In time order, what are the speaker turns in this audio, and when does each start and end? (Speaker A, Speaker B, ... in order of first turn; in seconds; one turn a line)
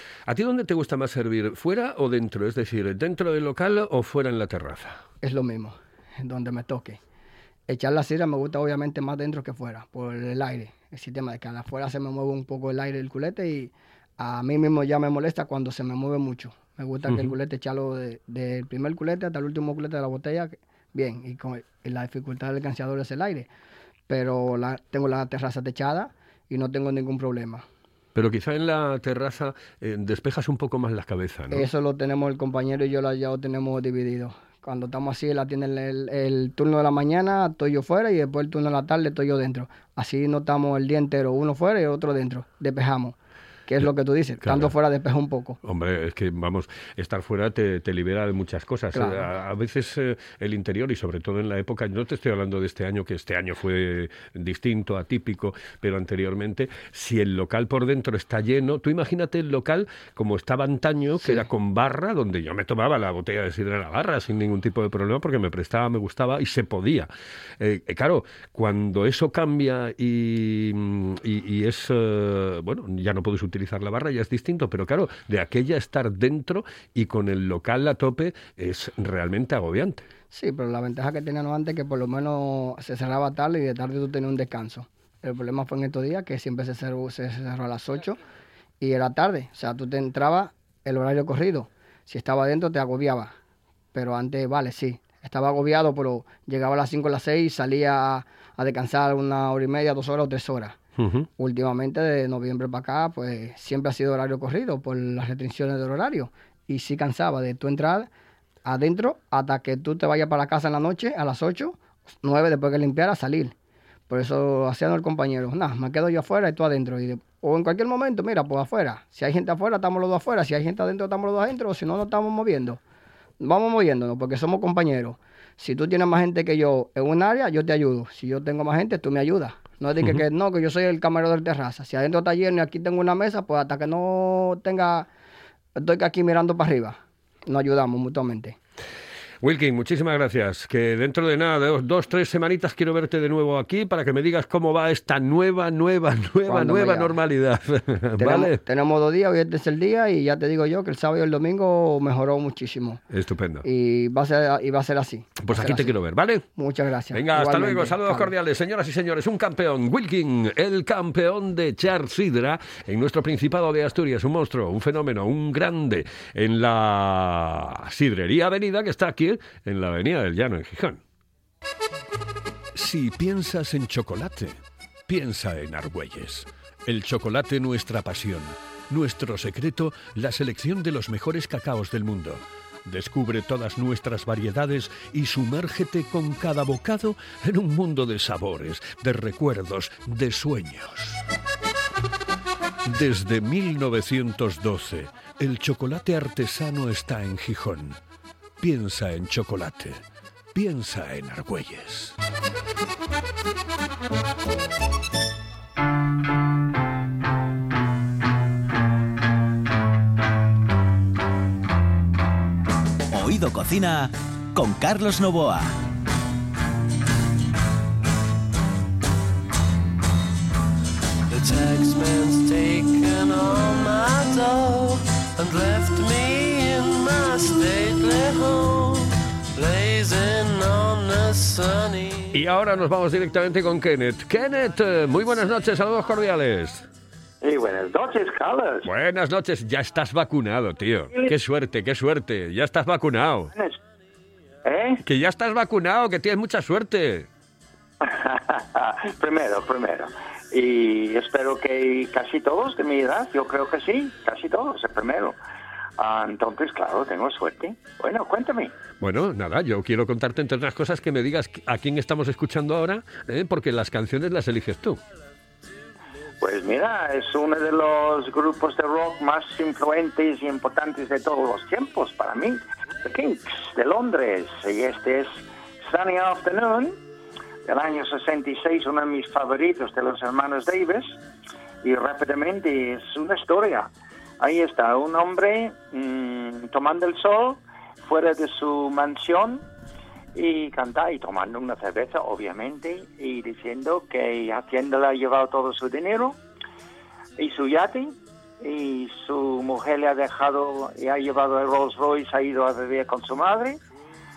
Speaker A: 0.3-5.0
Speaker B: 5.2-7.0
Speaker B: 7.7-23.5
Speaker A: 17.1-17.4
Speaker B: 24.1-27.6
Speaker A: 28.1-31.7
Speaker B: 31.5-45.6
Speaker A: 44.4-44.7
Speaker A: 45.6-80.1
Speaker B: 48.9-49.3
Speaker B: 80.3-88.2
Speaker B: 88.8-93.3
Speaker B: 93.9-100.8
Speaker A: 101.0-101.3
Speaker B: 101.4-108.1
Speaker B: 108.7-113.5
Speaker B: 114.1-122.8
Speaker B: 123.4-135.1
Speaker B: 135.8-138.6
Speaker A: 139.4-148.6
Speaker B: 146.5-147.2
Speaker B: 148.2-153.0
Speaker A: 153.1-153.7
Speaker B: 153.6-155.9
Speaker A: 155.4-156.4
Speaker B: 156.6-158.3
Speaker A: 157.1-171.0
Speaker A: 172.7-191.2
Speaker A: 192.8-198.0
Speaker A: 198.6-202.2
Speaker C: 213.1-215.7
Speaker D: 221.3-232.3
Speaker A: 232.3-236.9
Speaker E: 237.4-238.9
Speaker A: 238.8-243.5
Speaker E: 244.7-245.0
Speaker A: 245.0-247.3
Speaker E: 248.0-255.4
Speaker E: 256.0-258.8
Speaker A: 259.0-265.0
Speaker E: 266.4-277.0
Speaker E: 277.7-281.2
Speaker E: 281.8-289.7
Speaker E: 290.4-296.4
Speaker E: 297.4-303.8